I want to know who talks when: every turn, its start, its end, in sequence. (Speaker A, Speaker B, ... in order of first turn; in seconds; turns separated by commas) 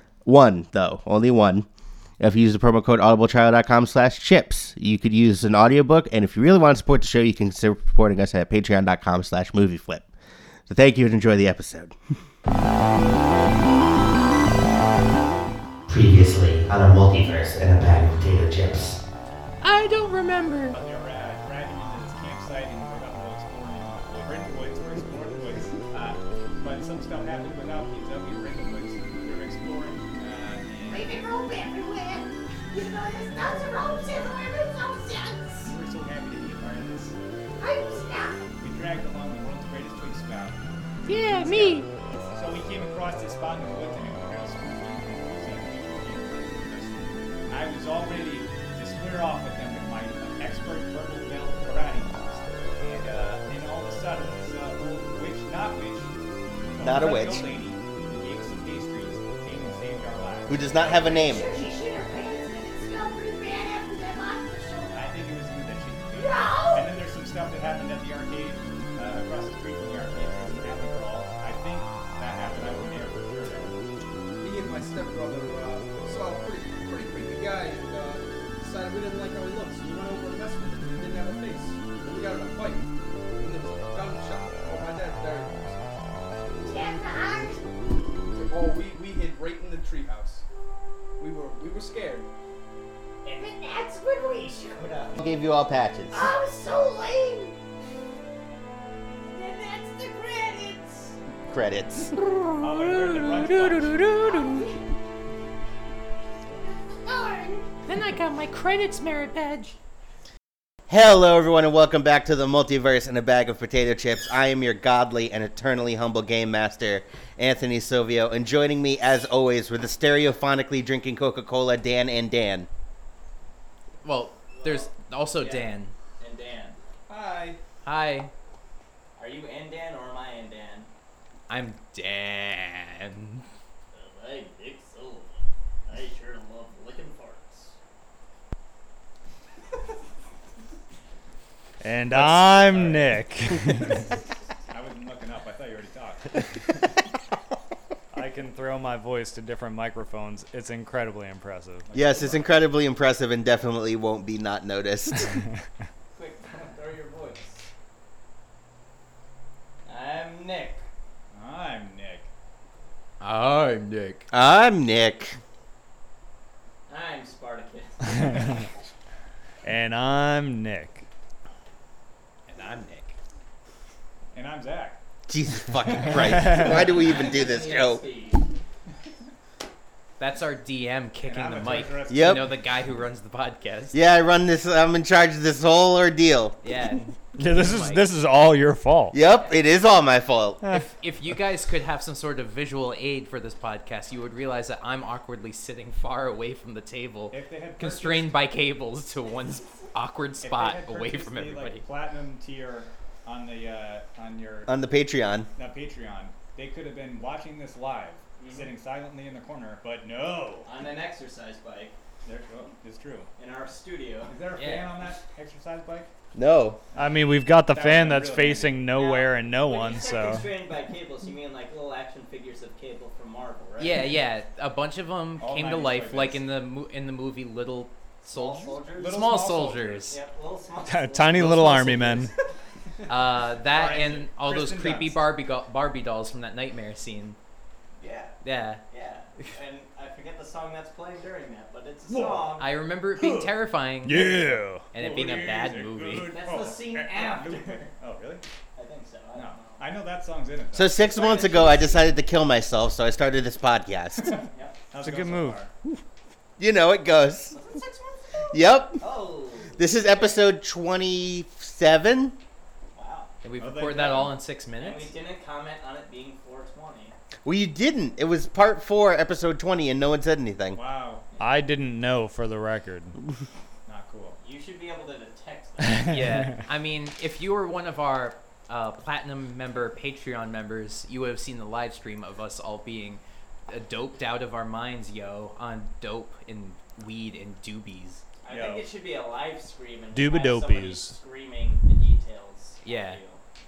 Speaker A: 0.3-1.7, Speaker A: 2.2-10.1, Speaker A: 10.7-12.0, Speaker A: 15.9-19.0, Speaker B: 19.6-20.8, Speaker C: 20.7-31.1, Speaker D: 30.9-35.8, Speaker C: 35.7-37.2, Speaker D: 37.6-38.5, Speaker C: 38.6-40.6, Speaker B: 41.1-41.9, Speaker C: 41.4-56.1, Speaker C: 56.7-61.3, Speaker A: 56.8-57.5, Speaker A: 60.5-61.6, Speaker D: 61.2-65.1, Speaker C: 64.9-73.8, Speaker D: 66.1-66.9, Speaker E: 74.4-82.9, Speaker E: 83.4-85.8, Speaker D: 86.6-87.6, Speaker E: 88.3-90.4, Speaker E: 91.2-92.3, Speaker D: 93.2-95.2, Speaker A: 95.2-96.3, Speaker D: 96.1-97.6, Speaker D: 99.3-101.2, Speaker A: 101.5-102.1, Speaker B: 102.2-104.7, Speaker C: 102.6-104.1, Speaker D: 104.2-105.0, Speaker D: 106.5-107.7, Speaker B: 107.9-109.8, Speaker A: 110.9-122.7, Speaker F: 124.0-125.9, Speaker G: 124.5-126.8, Speaker E: 127.1-127.6, Speaker F: 127.8-128.3, Speaker G: 129.2-130.9, Speaker F: 131.5-133.4, Speaker G: 133.9-137.8, Speaker H: 141.8-144.1, Speaker C: 142.1-144.2, Speaker C: 144.7-146.6, Speaker H: 148.1-151.9, Speaker C: 151.8-152.6, Speaker A: 151.9-155.4, Speaker G: 156.2-157.6, Speaker G: 159.8-160.9, Speaker C: 161.3-162.3, Speaker F: 163.2-164.3, Speaker A: 164.3-165.4, Speaker G: 166.9-168.6, Speaker H: 169.6-171.1, Speaker C: 172.5-173.2, Speaker C: 174.3-175.0, Speaker A: 175.3-178.1, Speaker C: 175.9-176.2, Speaker H: 176.3-176.7, Speaker G: 176.8-178.5, Speaker F: 180.2-184.0, Speaker C: 181.2-182.6, Speaker A: 182.1-182.5, Speaker A: 183.9-186.6, Speaker F: 186.6-188.1, Speaker H: 187.4-189.2, Speaker A: 189.1-190.6, Speaker F: 190.7-201.8, Speaker C: 197.3-198.4, Speaker C: 200.4-204.8, Speaker A: 204.7-205.5, Speaker C: 205.6-210.7, Speaker G: 208.4-208.7, Speaker G: 210.7-212.0, Speaker C: 212.2-213.3, Speaker G: 213.4-214.3, Speaker C: 214.3-216.1, Speaker F: 214.6-215.0, Speaker A: 216.3-216.8, Speaker H: 216.9-220.5, Speaker C: 217.7-218.8, Speaker G: 218.9-224.1, Speaker F: 223.8-230.2, Speaker C: 225.4-226.4, Speaker G: 228.3-229.2, Speaker C: 229.0-230.1, Speaker G: 230.1-232.3, Speaker H: 230.8-232.3, Speaker F: 231.9-232.2, Speaker F: 233.1-237.4, Speaker C: 233.6-235.2, Speaker G: 238.0-238.4, Speaker F: 238.4-238.8, Speaker G: 238.9-242.7, Speaker C: 242.1-242.6, Speaker F: 242.6-246.4, Speaker C: 243.2-243.5, Speaker H: 244.0-244.9, Speaker C: 244.2-248.4, Speaker G: 246.1-247.9, Speaker G: 248.8-249.8, Speaker C: 249.3-251.0, Speaker A: 250.7-254.4, Speaker G: 251.0-252.1, Speaker C: 254.3-255.7, Speaker G: 254.5-254.8, Speaker H: 255.0-255.6, Speaker A: 256.6-257.6, Speaker G: 257.5-260.4, Speaker A: 258.5-259.0, Speaker A: 259.8-262.4, Speaker G: 262.9-263.3, Speaker F: 263.4-265.1, Speaker C: 263.6-264.3, Speaker G: 264.8-267.1, Speaker A: 267.4-270.8, Speaker C: 270.7-271.3, Speaker H: 271.4-273.2, Speaker C: 273.9-274.4, Speaker G: 274.4-276.2, Speaker F: 276.1-288.2, Speaker G: 288.4-293.4, Speaker C: 288.5-288.9, Speaker H: 290.1-291.2, Speaker F: 292.8-293.2